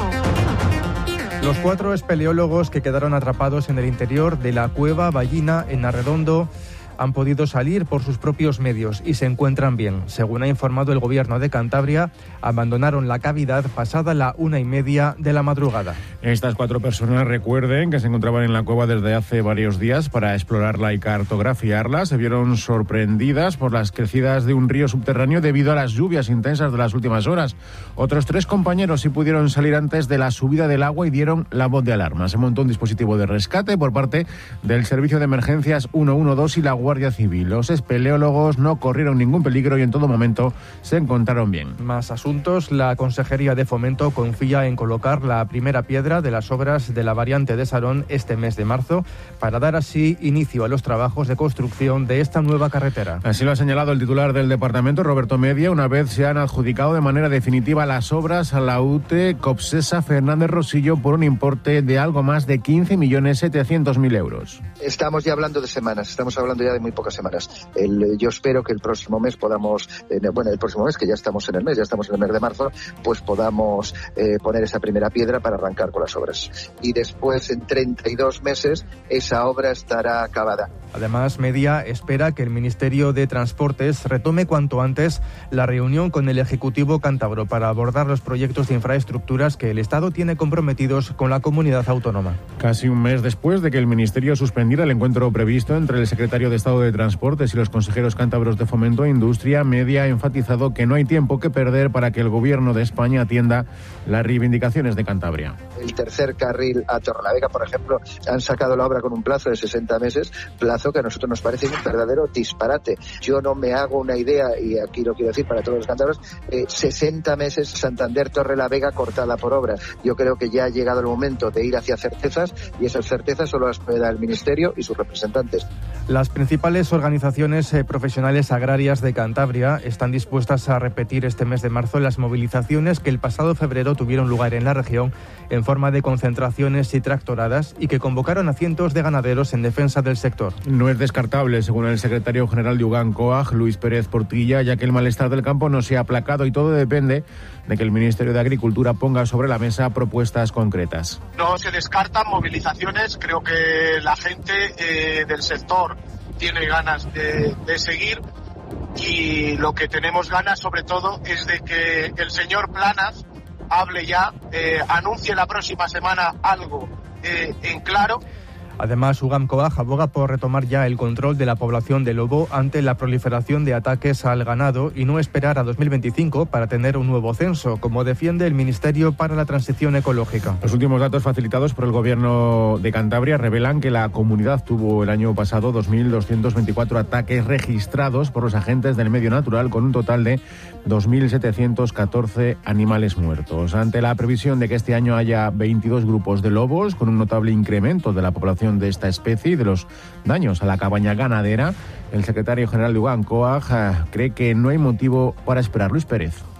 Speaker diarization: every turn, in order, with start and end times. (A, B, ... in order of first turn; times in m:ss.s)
0:01.4-0:16.0 A
0:16.2-0:41.8 B
0:41.8-0:53.2 A
0:53.2-1:04.6 B
1:04.8-1:20.7 C
1:20.9-1:32.4 A
1:32.6-1:45.6 B
1:45.8-2:05.6 C
2:06.1-2:20.6 A
2:20.6-2:31.2 B
2:31.4-2:38.2 D
2:39.0-2:48.2 D
2:48.8-3:00.6 A
3:00.6-3:26.4 B